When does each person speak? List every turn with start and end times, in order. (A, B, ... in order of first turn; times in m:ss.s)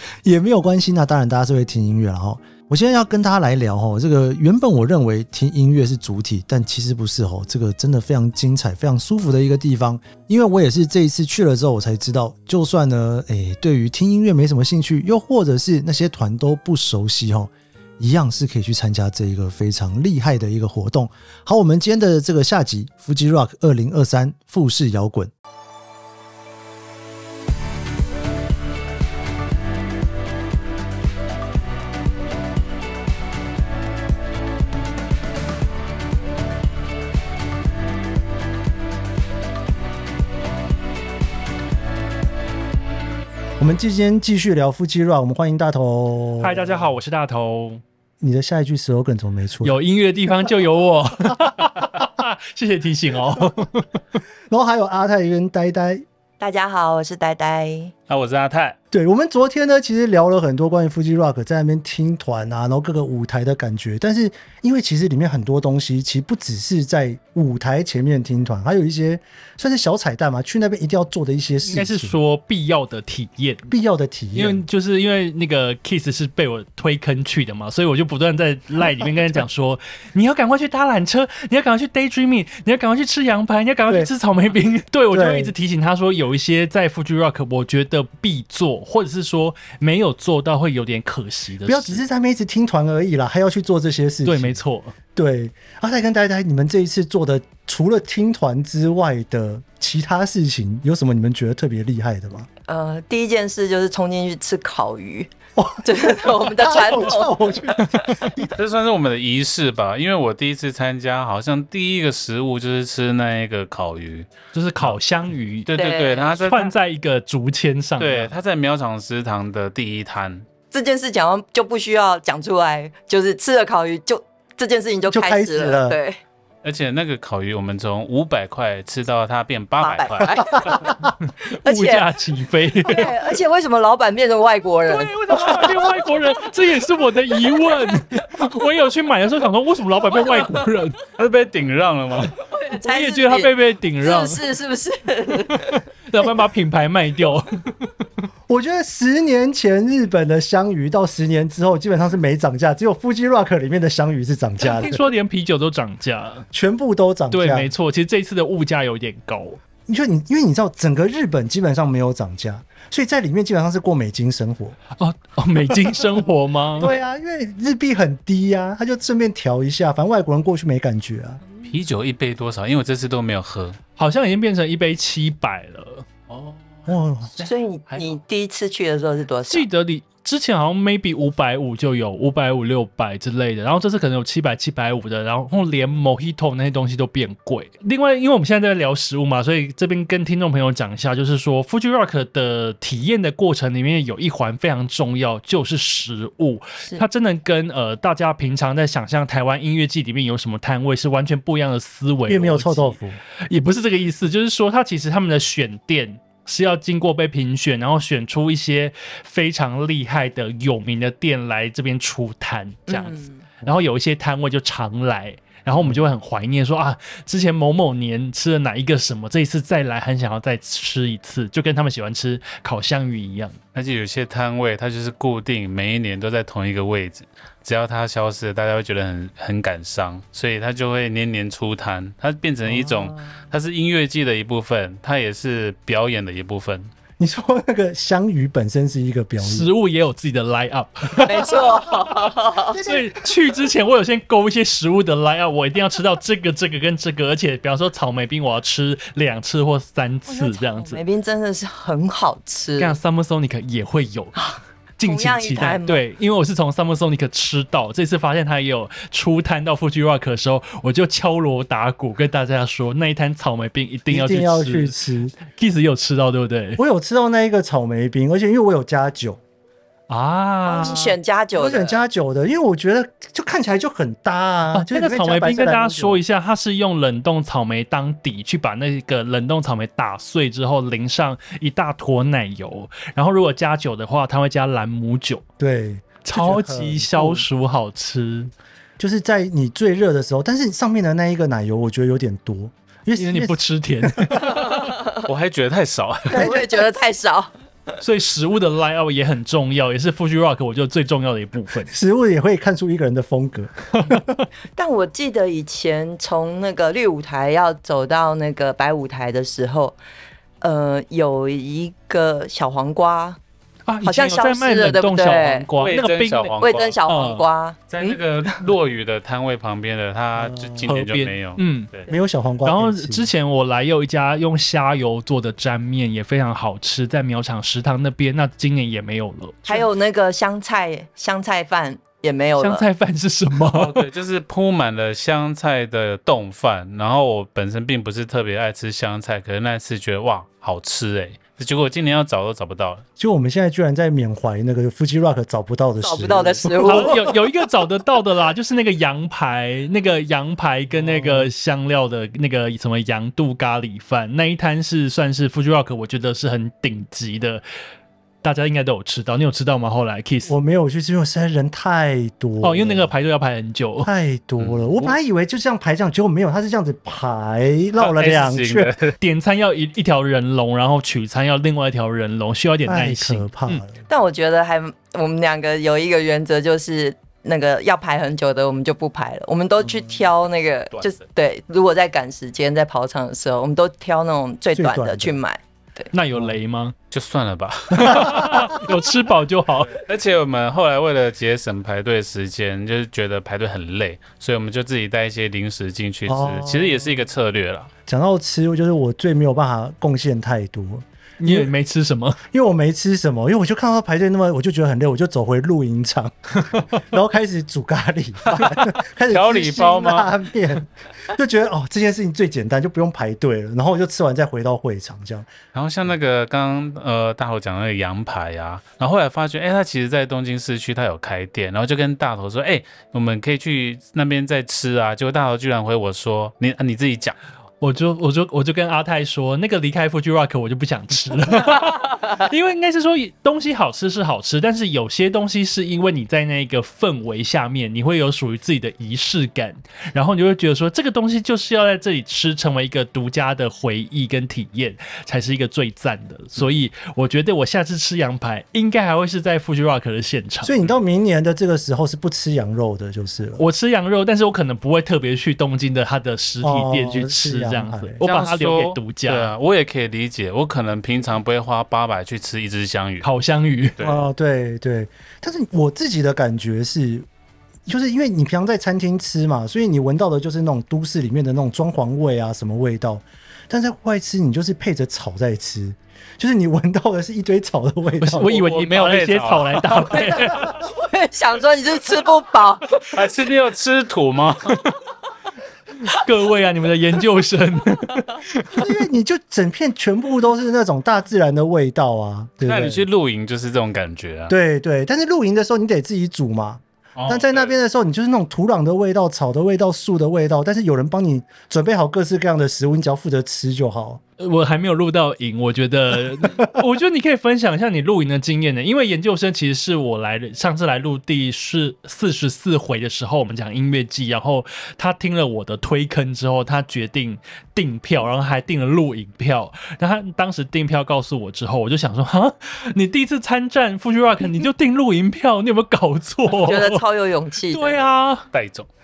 0:00.2-0:25.3 A
0:43.6-0:46.9 A
0:46.4-0:47.8 B
0:48.2-0:49.8 A
0:49.6-0:53.9 B
0:54.5-0:56.0 A
0:56.4-0:57.9 C
0:58.1-0:58.8 D
0:58.9-1:12.2 A
1:11.7-1:13.7 B
1:13.7-1:14.6 A
1:14.4-1:32.0 B
1:18.9-1:19.4 A
1:25.1-1:25.5 A
1:31.7-1:34.6 A
1:34.2-1:34.9 B
1:35.2-1:42.5 A
1:42.7-1:45.3 C
1:45.6-1:48.5 A
1:45.8-1:48.2 C
1:48.6-1:54.3 D
1:54.5-1:55.7 B
1:55.7-1:56.7 D
1:55.7-1:56.4 C
1:56.4-1:58.3 B
1:58.0-2:00.5 D
2:00.7-2:06.2 C
2:05.1-2:06.0 A
2:06.6-2:10.8 D
2:09.8-2:11.0 C
2:11.3-2:13.2 B
2:11.6-2:12.1 C
2:12.8-2:16.0 C
2:14.9-2:21.0 B
2:17.3-2:17.7 C
2:20.1-2:20.6 C
2:21.2-2:22.3 D
2:22.4-2:26.2 C
2:22.8-2:24.4 B
2:25.5-2:27.9 B
2:28.5-2:35.0 A
2:34.6-2:36.5 B
2:36.5-2:37.7 A
2:37.3-2:39.6 B
2:39.9-2:44.8 A
2:45.0-2:46.9 B
2:46.8-2:51.4 A
2:51.6-2:53.8 D
2:54.0-2:56.1 B
2:56.3-2:58.1 D
2:56.9-2:57.4 A
2:57.4-2:59.7 C
2:59.5-3:43.6 B
3:22.3-3:23.2 A
3:32.9-3:33.5 C
3:35.8-3:36.1 A
3:43.7-3:56.9 D
3:52.7-3:53.2 A
3:57.2-3:59.7 A
3:59.4-4:02.2 B
4:01.2-4:02.8 C
4:02.7-4:03.2 A
4:02.8-4:11.0 B
4:10.3-4:13.0 C
4:12.8-4:25.0 B
4:14.4-4:16.0 C
4:24.1-4:25.4 A
4:25.5-4:26.8 B
4:26.8-4:29.4 A
4:30.1-4:31.2 B
4:30.6-4:32.0 C
4:31.6-4:36.2 A
4:34.7-4:45.4 B
4:45.6-4:47.5 A
4:46.2-4:48.5 B
4:49.0-4:54.7 A
4:53.2-4:54.8 B
4:54.4-4:55.1 C
4:55.1-4:56.6 D
4:56.3-4:57.5 C
4:58.0-5:01.9 B
5:01.9-5:04.2 A
5:04.8-5:10.0 C
5:10.6-5:13.4 C
5:13.9-5:17.5 B
5:14.0-5:15.7 C
5:15.8-5:17.0 D
5:16.6-5:18.5 C
5:17.9-5:22.1 D
5:20.4-5:20.9 A
5:20.9-5:21.9 B
5:22.1-5:23.3 A
5:22.6-5:29.9 B
5:29.7-5:32.8 C
5:32.6-5:34.0 B
5:33.7-5:43.0 D
5:43.2-5:47.2 A
5:46.0-5:47.4 C
5:46.8-5:57.6 B
5:51.0-5:51.5 A
5:58.4-6:00.5 B
6:00.5-6:03.1 A
6:02.6-6:04.1 B
6:04.0-6:08.9 A
6:04.6-6:05.2 D
6:08.0-6:09.2 D
6:09.2-6:13.8 B
6:12.9-6:14.0 A
6:14.1-6:26.1 C
6:24.8-6:25.4 A
6:26.1-6:27.0 B
6:27.1-6:28.8 D
6:28.0-6:30.0 B
6:29.9-6:37.9 D
6:36.3-6:37.1 A
6:38.1-6:41.7 A
6:41.4-6:42.4 B
6:42.5-6:55.5 A
6:49.3-6:50.3 D
6:55.7-7:07.4 D
7:07.8-7:30.8 B
7:30.6-7:33.6 A
7:33.6-7:39.5 B
7:36.6-7:38.2 A
7:38.2-7:43.3 D
7:43.2-7:44.0 B
7:44.0-7:44.3 D
7:44.0-7:47.3 A
7:47.9-7:58.6 A
7:58.2-8:00.7 B
7:58.4-8:00.5 D
8:00.8-8:03.1 C
8:03.1-8:04.8 D
8:06.0-8:08.9 B
8:08.7-8:13.1 A
8:12.6-8:14.6 D
8:14.5-8:24.2 A
8:17.2-8:17.8 D
8:24.4-8:47.0 B
8:26.4-8:26.7 A
8:46.6-8:48.0 C
8:47.7-8:48.5 B
8:48.5-8:48.9 D